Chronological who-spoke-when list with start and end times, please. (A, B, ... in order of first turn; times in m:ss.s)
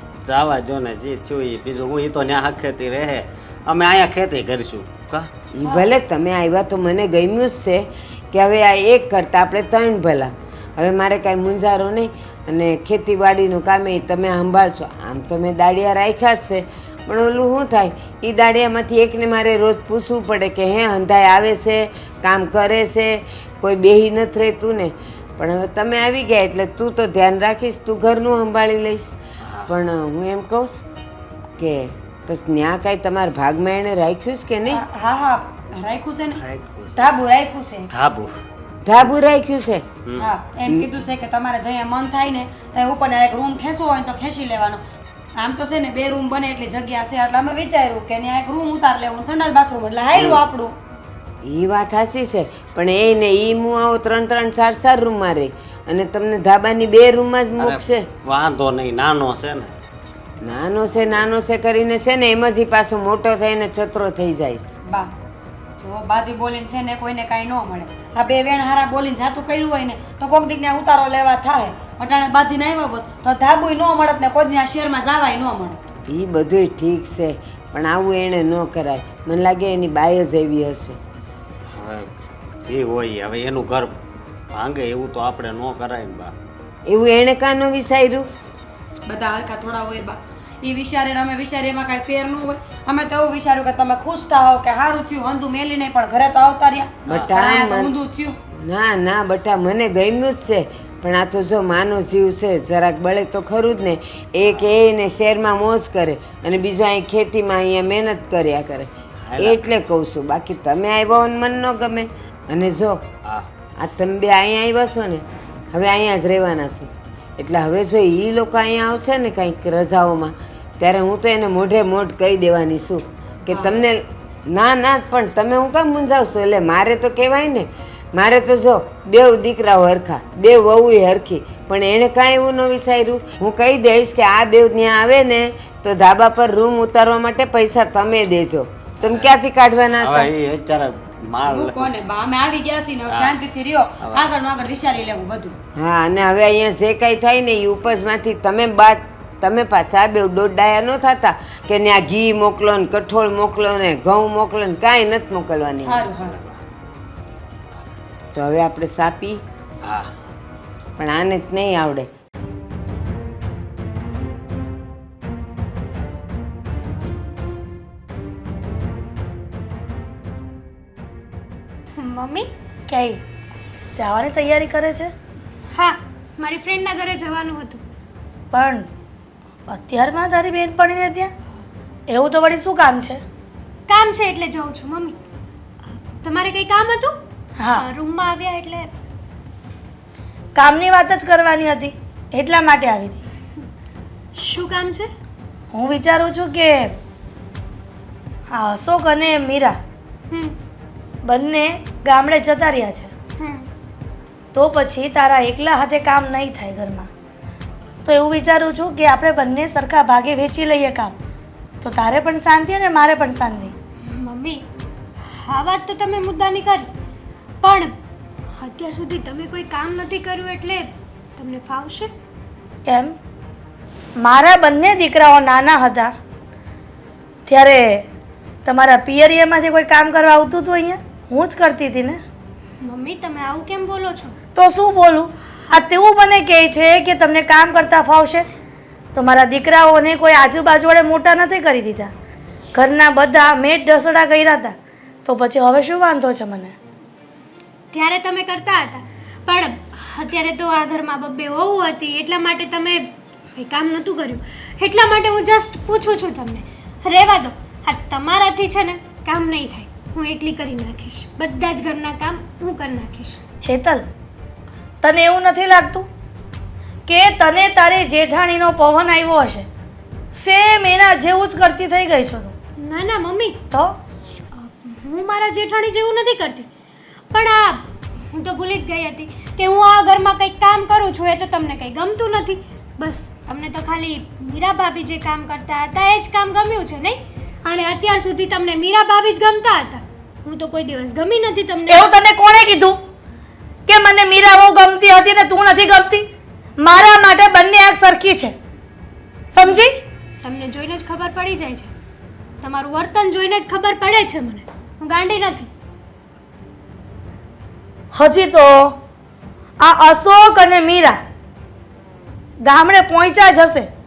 0:00.2-0:05.3 A
0:05.5-0:29.1 B
0:05.6-0:05.9 C
0:29.4-0:29.7 A
0:29.6-0:30.8 B
0:31.6-0:34.8 B
0:34.7-0:36.4 C
0:36.4-0:37.0 A
0:37.0-0:37.9 C
0:37.9-0:38.4 A
0:38.8-0:39.9 B
0:40.0-0:40.3 A
0:40.2-0:44.8 C
0:45.4-0:50.7 C
0:51.4-0:58.1 B
0:57.6-0:59.8 A
1:00.4-1:04.7 B
1:04.8-1:05.1 C
1:05.8-1:15.8 C
1:16.1-1:21.0 B
1:21.7-1:24.0 A
1:24.5-1:26.3 A
1:26.9-1:28.3 B
1:29.0-1:38.4 C
1:37.0-1:37.9 B
1:38.6-1:53.0 B
1:49.2-1:49.7 A
1:53.2-1:53.5 A
1:53.8-2:20.3 B
2:03.5-2:03.8 C
2:19.0-2:19.4 A
2:20.0-2:22.0 A
2:21.4-2:25.5 C
2:23.0-2:23.4 A
2:24.0-2:24.3 A
2:25.8-2:36.1 B
2:35.8-2:36.4 C
2:36.2-2:36.6 A
2:38.3-2:39.4 B
2:39.8-2:40.1 A
2:41.0-2:42.1 B
2:52.0-2:52.5 D
2:52.9-2:53.2 E
2:53.9-2:55.1 E
2:55.7-2:57.8 D
2:58.5-2:58.9 E
2:59.7-3:01.3 E
3:02.1-3:03.2 E
3:03.9-3:05.2 D
3:06.2-3:07.1 D
3:07.6-3:07.8 E
3:07.8-3:08.9 D
3:10.5-3:13.2 E
3:14.3-3:15.1 D
3:15.7-3:17.0 E
3:18.5-3:19.8 E
3:20.3-3:20.6 D
3:21.2-3:23.1 E
3:23.4-3:23.7 D
3:24.5-3:27.1 E
3:28.0-3:31.1 E
3:31.8-3:33.7 E
3:34.0-3:34.6 D
3:35.4-3:36.9 D
3:37.6-3:37.9 D
3:38.6-3:42.1 D
3:42.8-3:43.2 E
3:44.2-3:46.1 E
3:47.5-3:48.0 E
3:48.6-3:52.2 E
3:52.8-3:54.3 D
3:54.6-3:58.4 E
3:59.1-4:02.1 E
4:02.7-4:06.7 E
4:07.9-4:23.4 D
4:23.6-4:24.0 E
4:25.0-4:26.1 E
4:27.1-4:29.7 E
4:30.3-4:32.5 E
4:32.8-4:33.6 D
4:33.7-4:34.0 E
4:34.6-4:36.7 D
4:37.3-4:52.1 D
4:51.9-4:53.0 E
4:53.9-4:58.6 E
4:59.5-5:00.0 E
5:00.4-5:01.9 D
5:02.6-5:05.7 D
5:08.1-5:09.0 E
5:09.8-5:11.2 E
5:12.6-5:13.9 E